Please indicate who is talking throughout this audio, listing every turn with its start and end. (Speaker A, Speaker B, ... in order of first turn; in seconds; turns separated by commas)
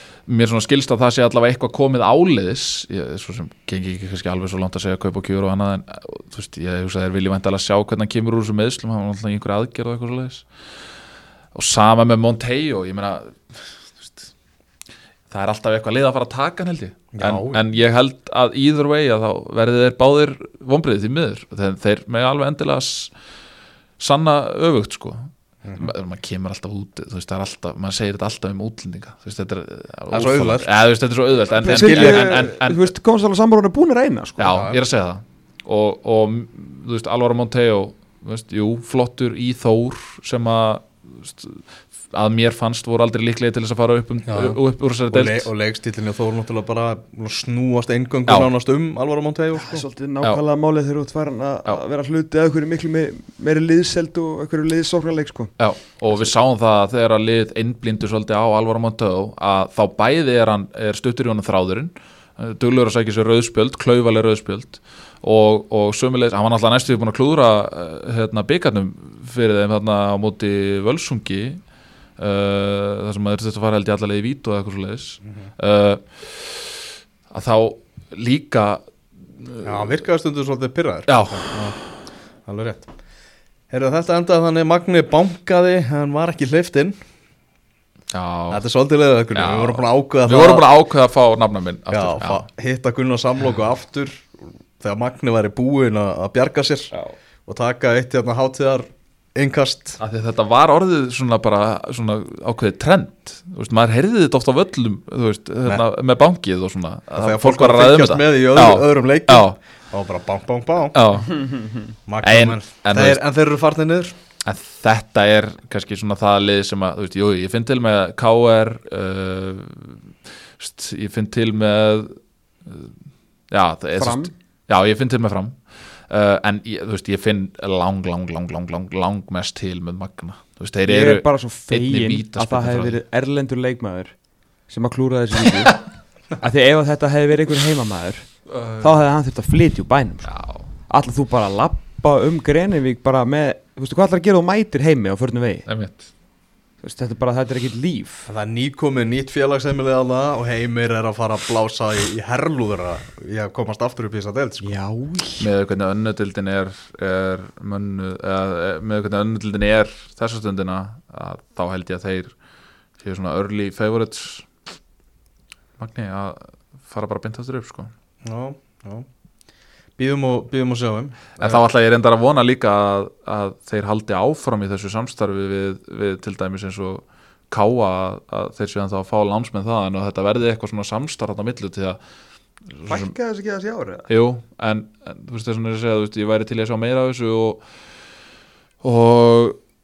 Speaker A: 0.3-10.5, Speaker A: 11.5-14.3, Speaker A: 15.3-23.1, Speaker B: 17.1-17.6, Speaker A: 24.0-32.9, Speaker B: 25.6-25.9, Speaker B: 30.1-30.7, Speaker C: 31.6-34.6, Speaker B: 31.9-32.3, Speaker A: 34.4-45.5, Speaker B: 34.5-34.8, Speaker B: 44.3-49.9, Speaker C: 49.5-55.5, Speaker A: 55.6-71.6, Speaker A: 72.2-78.8, Speaker A: 79.4-79.8, Speaker B: 79.6-82.9, Speaker A: 81.1-81.6, Speaker B: 83.7-87.0, Speaker A: 88.1-88.6, Speaker B: 88.5-90.7, Speaker A: 89.3-92.5, Speaker B: 91.9-96.9, Speaker B: 97.5-100.0, Speaker A: 100.0-109.5, Speaker B: 107.1-111.0, Speaker A: 110.9-111.4, Speaker C: 111.4-111.9, Speaker B: 112.1-114.1, Speaker A: 112.2-113.2, Speaker A: 114.5-120.0, Speaker A: 120.6-122.9, Speaker A: 123.5-133.0, Speaker C: 124.0-124.3, Speaker C: 130.9-134.1, Speaker C: 134.7-140.3, Speaker A: 138.5-138.9, Speaker A: 140.2-140.7, Speaker C: 140.9-145.7, Speaker A: 145.7-146.1, Speaker C: 146.8-148.3, Speaker B: 148.3-154.8, Speaker C: 154.6-155.5, Speaker A: 155.4-162.4, Speaker A: 163.0-164.6, Speaker A: 165.8-167.9, Speaker B: 168.2-169.1, Speaker B: 170.0-171.6, Speaker A: 171.4-182.0, Speaker A: 182.7-183.1, Speaker C: 182.9-184.1, Speaker A: 184.1-187.7, Speaker A: 188.8-189.6